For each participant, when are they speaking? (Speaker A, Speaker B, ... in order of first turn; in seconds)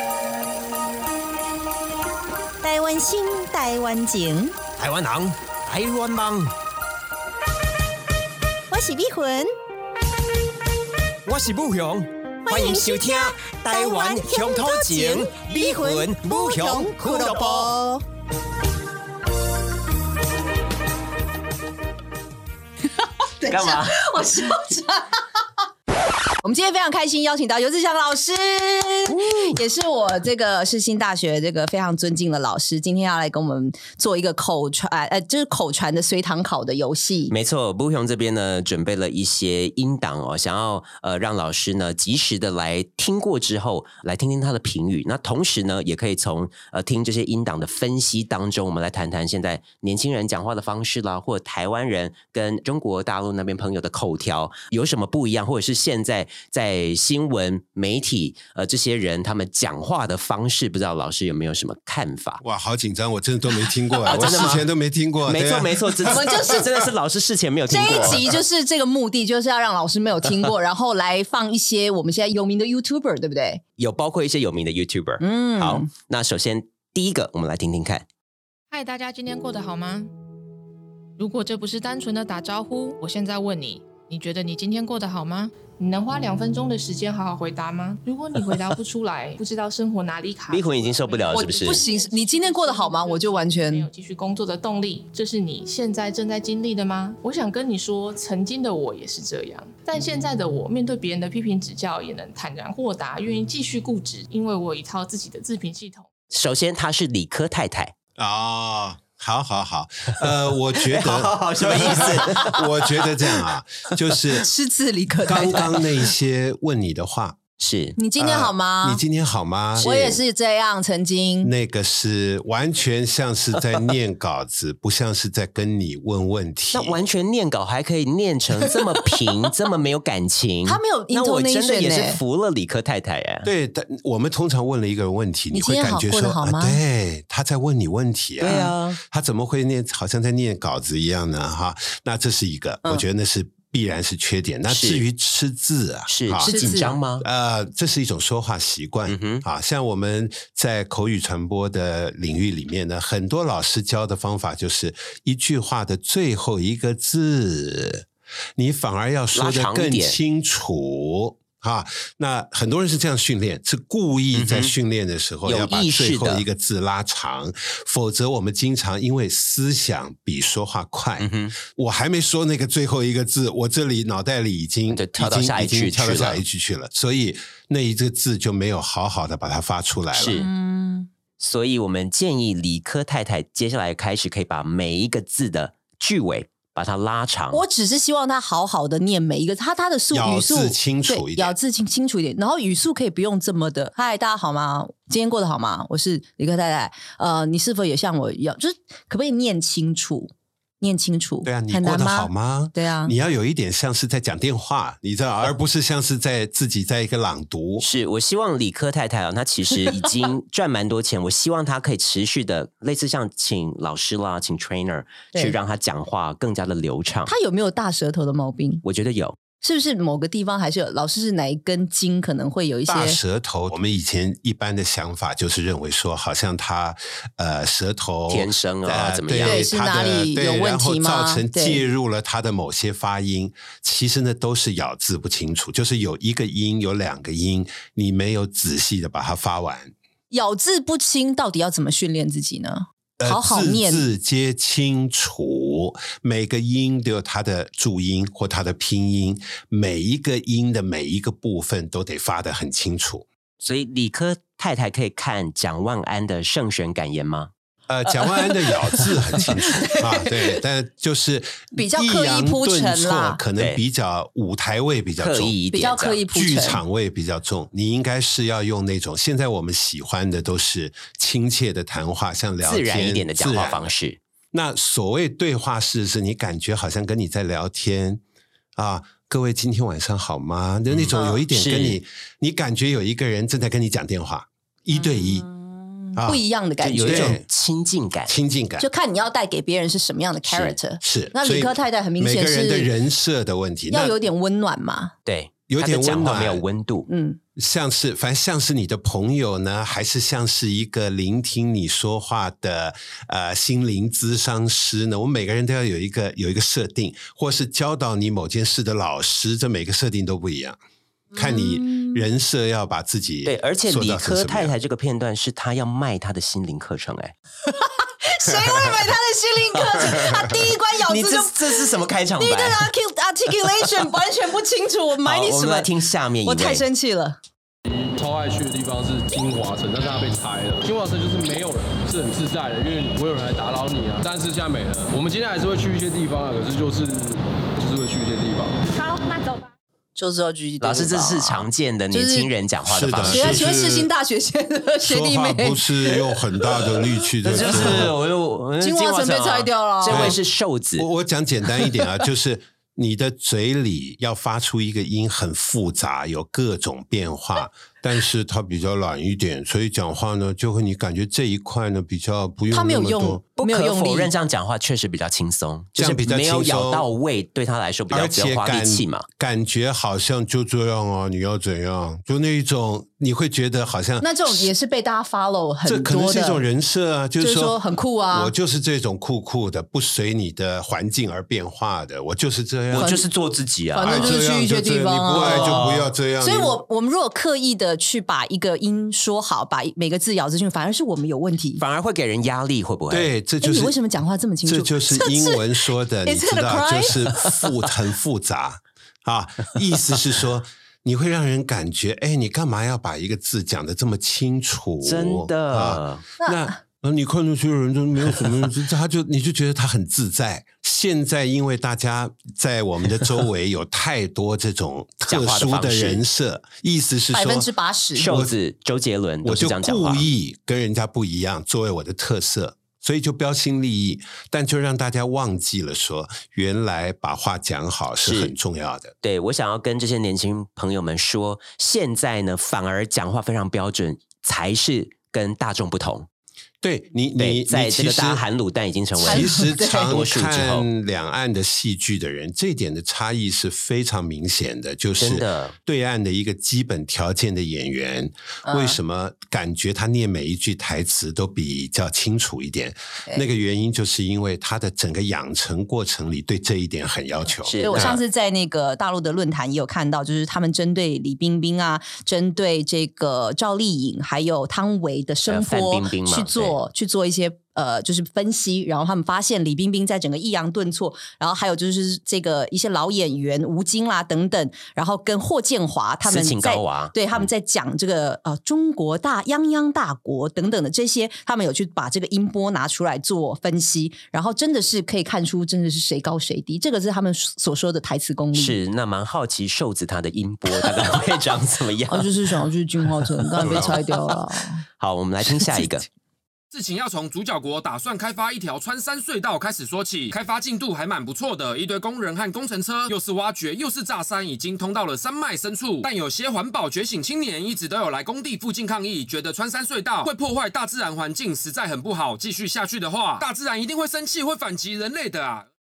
Speaker A: 2.6-4.5, 8.7-9.5, 12.4-18.0
Speaker B: 4.8-6.5, 11.2-17.7, 23.4-24.0, 29.1-29.6, 37.3-62.4, 64.0-64.7, 65.2-68.2, 73.8-78.0, 90.5-91.8, 106.3-107.9, 110.8-112.6, 117.6-118.0, 119.8-120.2, 126.7-133.5, 138.4-139.0, 144.7-145.0, 146.1-147.2, 149.1-149.4, 159.3-160.2, 164.3-164.7, 165.4-166.4, 171.2-171.5, 174.9-176.4, 180.1-180.5, 181.4-187.6, 207.8-217.3, 218.8-219.4, 228.3-229.6, 253.6-257.5, 265.2-266.2, 272.6-274.2, 280.9-282.0, 286.8-288.3, 290.4-290.8, 295.2-297.1, 313.4-317.3, 321.0-322.9, 323.6-323.9, 325.2-326.8, 340.8-343.6, 347.4-351.1, 363.6-369.2, 382.9-384.4, 385.3-386.0, 391.8-393.3, 405.0-406.2, 415.2-416.2, 418.1-420.3, 428.2-428.5, 429.2-436.3, 437.4-440.9, 445.2-445.7, 457.6-458.2, 465.5-466.8, 476.2-477.5, 488.5-492.5, 493.6-494.4, 495.0-496.1
Speaker C: 23.4-25.2, 26.4-37.3, 66.2-66.6, 67.7-73.6, 75.2-75.9, 91.3-93.9, 114.4-115.7, 118.0-119.0, 119.8-121.5, 130.7-132.2, 135.5-136.8, 138.4-138.7, 146.4-147.0, 180.2-181.1, 187.5-203.1, 217.3-218.8, 219.6-223.2, 229.4-231.8, 240.3-244.0, 258.4-259.4, 259.9-260.5, 261.8-263.4, 265.7-266.8, 284.9-287.4, 288.8-292.9, 293.9-295.1, 297.1-297.4, 311.3-312.2, 317.7-325.9, 326.4-327.4, 340.1-342.5, 343.2-346.3, 347.6-348.1, 348.8-350.4, 362.7-364.3, 374.2-376.6, 377.4-378.5, 383.0-383.2, 383.9-391.8, 393.6-395.6, 396.2-397.5, 406.4-406.7, 417.3-418.3, 439.2-440.1, 448.6-449.0, 457.8-488.8, 492.1-494.8
Speaker D: 62.4-66.4, 108.2-114.5, 115.2-117.4, 118.2-120.1, 121.4-127.0, 133.4-158.1, 158.6-180.3, 190.1-191.5, 201.4-207.8, 222.9-239.9, 243.2-253.2, 257.9-265.6, 266.3-273.9, 274.5-278.2, 278.8-285.5, 286.1-286.4, 287.0-287.4, 288.3-288.9, 291.0-294.1, 295.7-296.6, 297.6-310.8, 311.3-314.7, 342.9-344.1, 345.0-348.1, 350.1-350.4, 351.0-363.4, 366.0-367.1, 368.1-374.7, 375.9-377.8, 378.3-383.1, 384.0-386.8, 393.1-393.9, 394.6-417.7, 418.2-418.5, 419.4-429.1, 436.8-438.4, 439.2-458.2, 493.6-493.9
Speaker E: 78.7-80.1, 81.2-106.1
Speaker F: 327.9-338.8
Speaker G: 496.7-515.7